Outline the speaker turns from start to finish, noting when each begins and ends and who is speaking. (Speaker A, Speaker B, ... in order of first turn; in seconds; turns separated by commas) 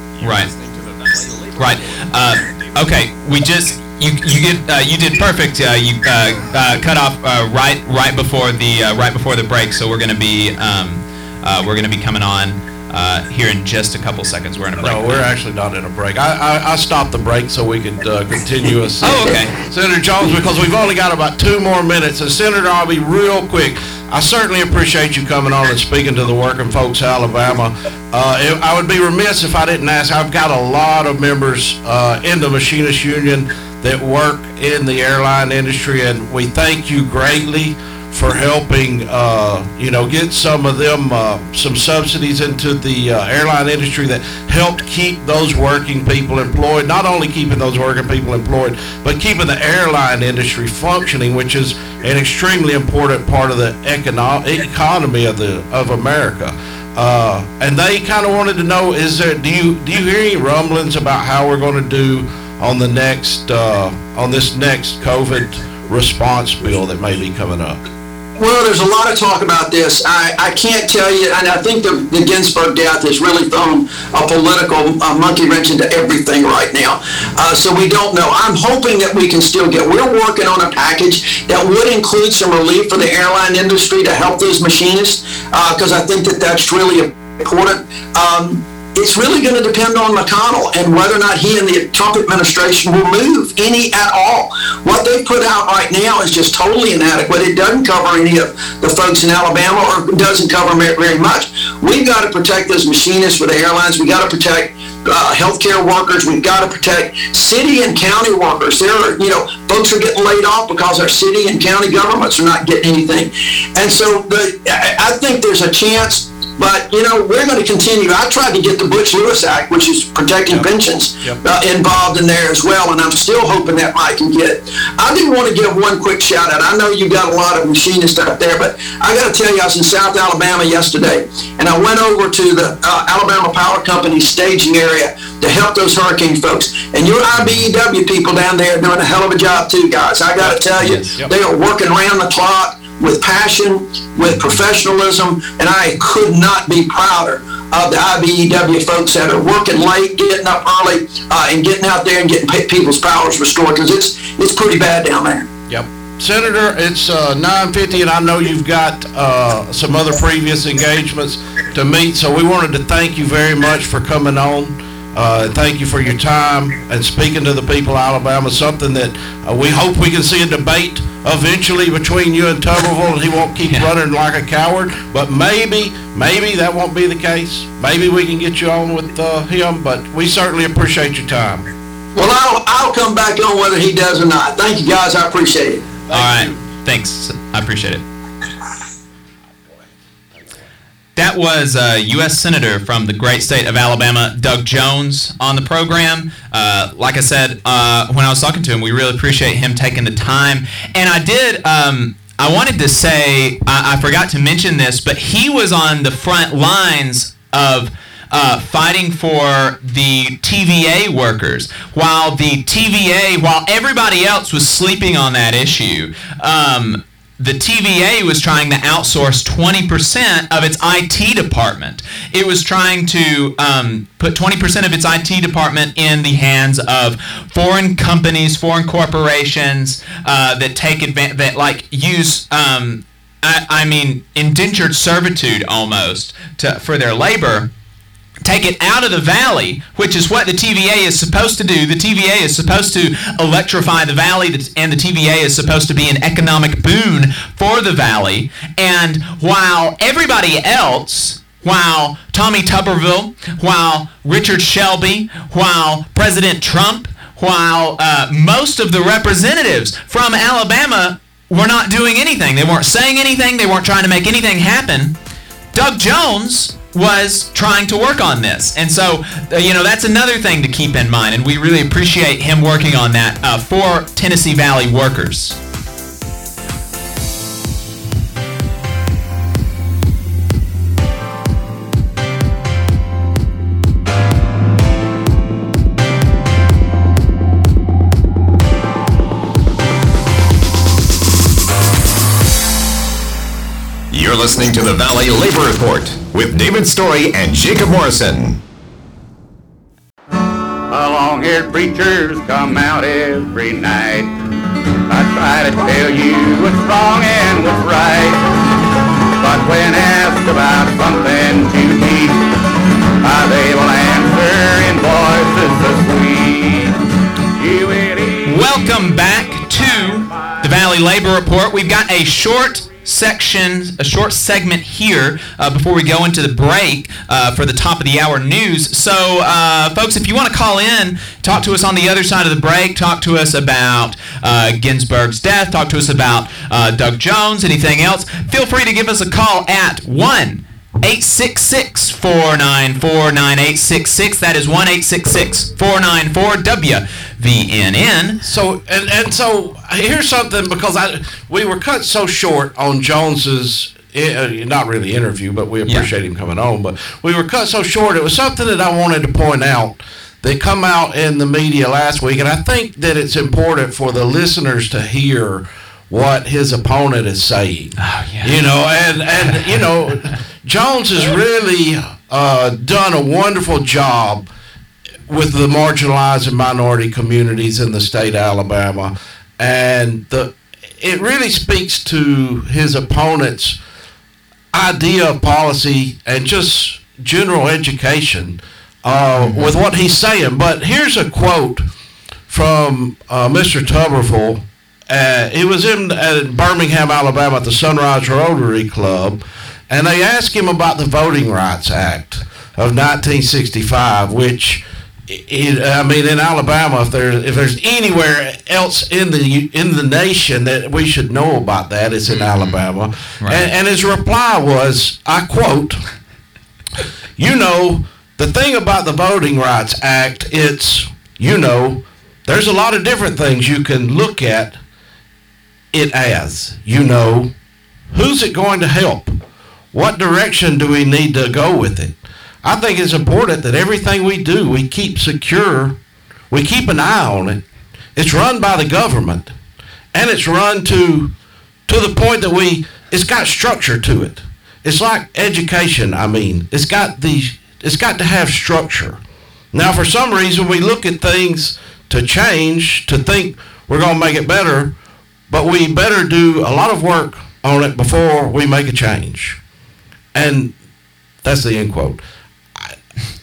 Speaker A: 0.2-0.5, Speaker B: 0.2-1.6, Speaker A: 1.6-15.3, Speaker C: 14.8-67.8, Speaker A: 19.0-19.5, Speaker D: 68.4-155.5, Speaker A: 140.8-141.1, Speaker C: 155.7-181.7, Speaker D: 182.1-185.9, Speaker C: 186.1-186.6, Speaker A: 186.1-188.0, Speaker A: 191.2-237.7, Speaker A: 238.4-265.1, Speaker A: 265.7-275.6, Speaker B: 294.1-298.6, Speaker E: 300.9-304.3, Speaker E: 305.1-308.4, Speaker E: 309.4-312.4, Speaker E: 313.2-317.0, Speaker E: 317.6-318.5, Speaker A: 318.4-348.4, Speaker C: 348.4-374.5, Speaker A: 368.0-368.5, Speaker C: 375.3-383.8, Speaker C: 384.7-391.9, Speaker A: 389.3-389.7, Speaker C: 392.5-416.0, Speaker A: 412.3-412.8, Speaker A: 413.4-413.7, Speaker C: 417.4-424.8, Speaker C: 425.9-427.5, Speaker C: 428.1-429.4, Speaker C: 429.9-436.0, Speaker C: 436.5-437.6, Speaker C: 438.1-439.5, Speaker C: 440.1-441.3, Speaker C: 441.9-449.2, Speaker C: 449.7-454.9, Speaker C: 455.5-459.6, Speaker C: 460.3-460.7, Speaker C: 461.4-462.2